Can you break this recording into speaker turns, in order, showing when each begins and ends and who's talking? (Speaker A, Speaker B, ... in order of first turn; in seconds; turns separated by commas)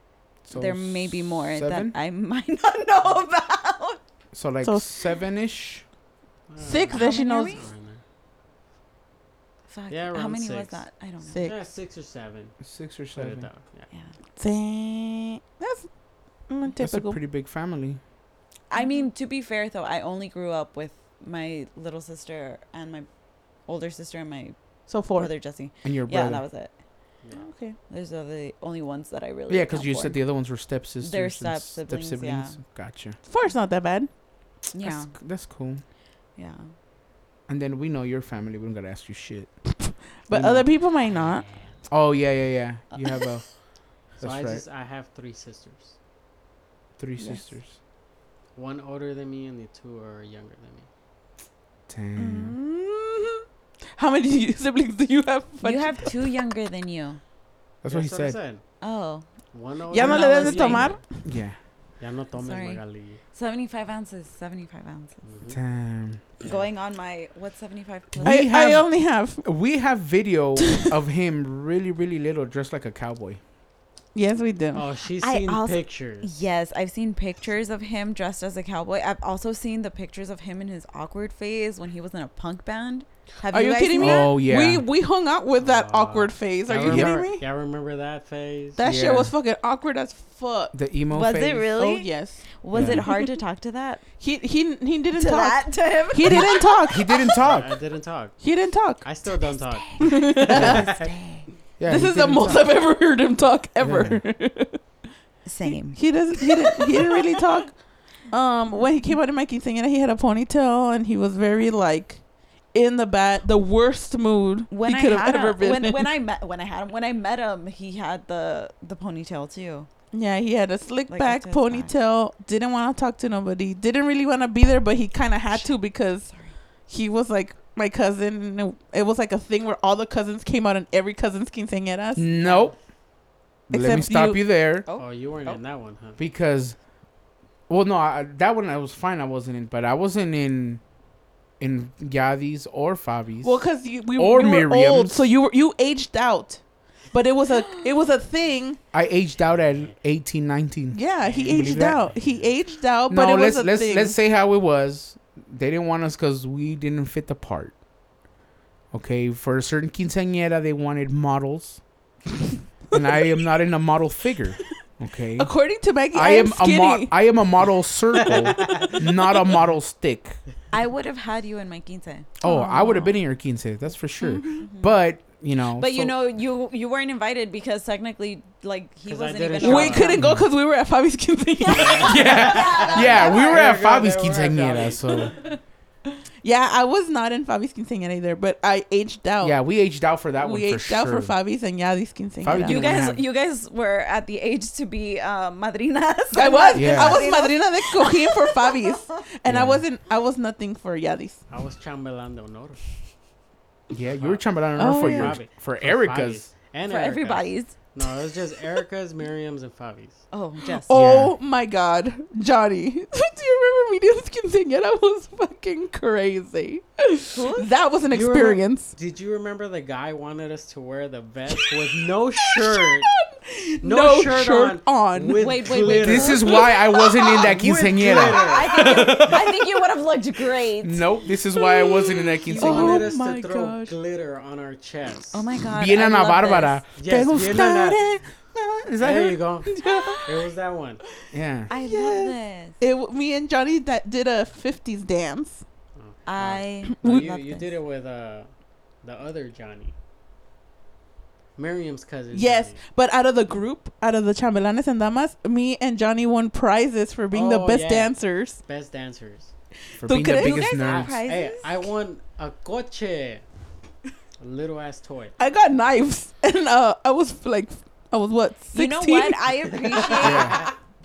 Speaker A: 0.4-1.9, Speaker B: 0.5-4.0, Speaker A: 4.3-5.8, Speaker C: 4.6-4.9, Speaker D: 6.5-8.0, Speaker C: 6.6-7.6, Speaker B: 6.9-7.7, Speaker B: 9.7-11.4, Speaker D: 9.9-10.8, Speaker C: 11.3-11.6, Speaker D: 11.3-12.6, Speaker A: 12.6-13.5, Speaker D: 13.1-13.9, Speaker C: 14.4-15.9, Speaker C: 16.5-17.2, Speaker A: 16.8-18.0, Speaker B: 18.7-23.1, Speaker B: 23.7-24.6, Speaker C: 24.9-25.3, Speaker B: 25.1-26.7, Speaker A: 25.8-26.4, Speaker C: 27.3-27.8, Speaker B: 27.9-30.2, Speaker A: 29.5-33.2, Speaker B: 31.0-32.6, Speaker C: 33.2-34.1, Speaker B: 34.7-35.1, Speaker A: 34.8-35.8, Speaker B: 36.4-36.7, Speaker A: 37.5-39.5, Speaker C: 39.8-41.5, Speaker A: 40.3-40.7, Speaker A: 41.9-43.4, Speaker D: 44.2-46.0, Speaker A: 44.2-44.6, Speaker A: 47.0-47.8, Speaker D: 48.5-50.9, Speaker A: 51.9-52.5, Speaker C: 52.2-53.4, Speaker C: 54.0-56.1, Speaker B: 55.6-57.2, Speaker A: 57.8-58.4, Speaker D: 57.9-58.6, Speaker B: 58.8-59.2, Speaker D: 59.5-61.0, Speaker C: 59.9-61.2, Speaker B: 59.9-61.0, Speaker A: 61.2-61.6, Speaker D: 62.0-63.2, Speaker B: 62.4-62.8, Speaker B: 63.3-65.2, Speaker D: 65.2-65.6, Speaker A: 65.5-66.2, Speaker D: 66.4-66.7, Speaker B: 66.4-68.5, Speaker A: 68.1-68.9, Speaker C: 68.2-69.4, Speaker A: 69.4-73.4, Speaker C: 74.1-74.8, Speaker D: 74.7-76.3, Speaker B: 75.2-84.3, Speaker C: 83.5-87.4, Speaker A: 84.0-84.8, Speaker D: 85.6-88.8, Speaker A: 86.8-87.2, Speaker C: 88.8-90.7, Speaker A: 88.8-89.3, Speaker A: 90.7-91.7, Speaker B: 91.1-94.0, Speaker C: 91.8-93.2, Speaker A: 92.7-93.1, Speaker C: 94.2-97.1, Speaker B: 95.1-96.4, Speaker A: 96.2-97.7, Speaker D: 97.4-98.4, Speaker C: 98.4-99.0, Speaker D: 99.0-101.1, Speaker C: 100.0-100.8, Speaker A: 100.5-100.9, Speaker A: 101.8-102.7, Speaker C: 101.9-104.8, Speaker A: 103.8-104.2, Speaker B: 105.4-106.0, Speaker C: 105.9-107.7, Speaker B: 106.5-107.2, Speaker C: 108.3-112.2, Speaker C: 112.7-116.1, Speaker B: 114.7-119.9, Speaker C: 120.1-126.3, Speaker B: 121.1-121.9, Speaker B: 126.3-126.5, Speaker C: 126.9-132.3, Speaker A: 132.2-132.8, Speaker D: 132.4-132.7, Speaker A: 133.7-134.9, Speaker C: 133.7-134.5, Speaker B: 134.8-135.6, Speaker D: 135.0-136.2, Speaker A: 136.2-136.8, Speaker A: 137.7-140.8, Speaker A: 141.6-143.6, Speaker C: 143.4-148.8, Speaker A: 144.2-145.3, Speaker A: 148.9-152.0, Speaker D: 149.5-149.9, Speaker C: 150.9-154.2, Speaker D: 151.2-152.5, Speaker A: 153.1-157.7, Speaker A: 158.9-161.8, Speaker A: 162.9-165.5, Speaker C: 165.4-167.2, Speaker A: 166.1-170.4, Speaker D: 168.2-169.0, Speaker B: 170.7-173.1, Speaker A: 172.4-176.1, Speaker C: 172.4-173.1, Speaker C: 174.2-174.7, Speaker B: 174.6-175.0, Speaker B: 175.7-180.2, Speaker D: 179.1-180.1, Speaker C: 179.6-182.3, Speaker A: 180.2-180.5, Speaker B: 181.6-183.7, Speaker D: 181.7-185.3, Speaker A: 182.0-185.3, Speaker C: 186.4-189.6, Speaker A: 189.4-191.3, Speaker C: 190.4-193.0, Speaker A: 192.4-193.2, Speaker B: 192.6-199.2, Speaker C: 196.3-201.4, Speaker A: 196.7-197.3, Speaker A: 199.4-199.8, Speaker D: 201.5-202.8, Speaker A: 203.9-206.5, Speaker D: 204.0-210.2, Speaker C: 204.8-205.4, Speaker B: 206.9-207.7, Speaker B: 210.3-211.0, Speaker C: 210.8-218.9, Speaker A: 210.9-211.3, Speaker B: 217.3-217.7, Speaker D: 218.1-223.1, Speaker C: 221.5-225.5, Speaker D: 223.8-226.6, Speaker B: 225.3-226.8, Speaker A: 225.9-229.5, Speaker C: 226.4-227.5, Speaker D: 227.4-229.3, Speaker B: 228.2-231.0, Speaker A: 230.8-233.1, Speaker C: 231.5-233.9, Speaker D: 232.5-235.5, Speaker B: 232.6-233.0, Speaker B: 235.3-236.8, Speaker A: 235.7-239.4, Speaker D: 236.9-238.0, Speaker D: 239.0-241.0, Speaker C: 239.7-240.3, Speaker A: 241.3-241.7, Speaker B: 241.7-242.8, Speaker C: 241.7-245.6, Speaker D: 245.9-248.5, Speaker B: 246.2-247.7, Speaker C: 246.8-247.3, Speaker D: 249.0-249.9, Speaker D: 251.6-252.8, Speaker C: 252.3-258.6, Speaker D: 257.3-259.5, Speaker C: 259.9-260.7, Speaker A: 260.0-261.2, Speaker B: 260.3-261.9, Speaker D: 260.8-263.4, Speaker D: 264.4-265.4, Speaker C: 265.4-269.5, Speaker B: 268.7-270.7, Speaker D: 270.0-270.7, Speaker A: 270.2-270.6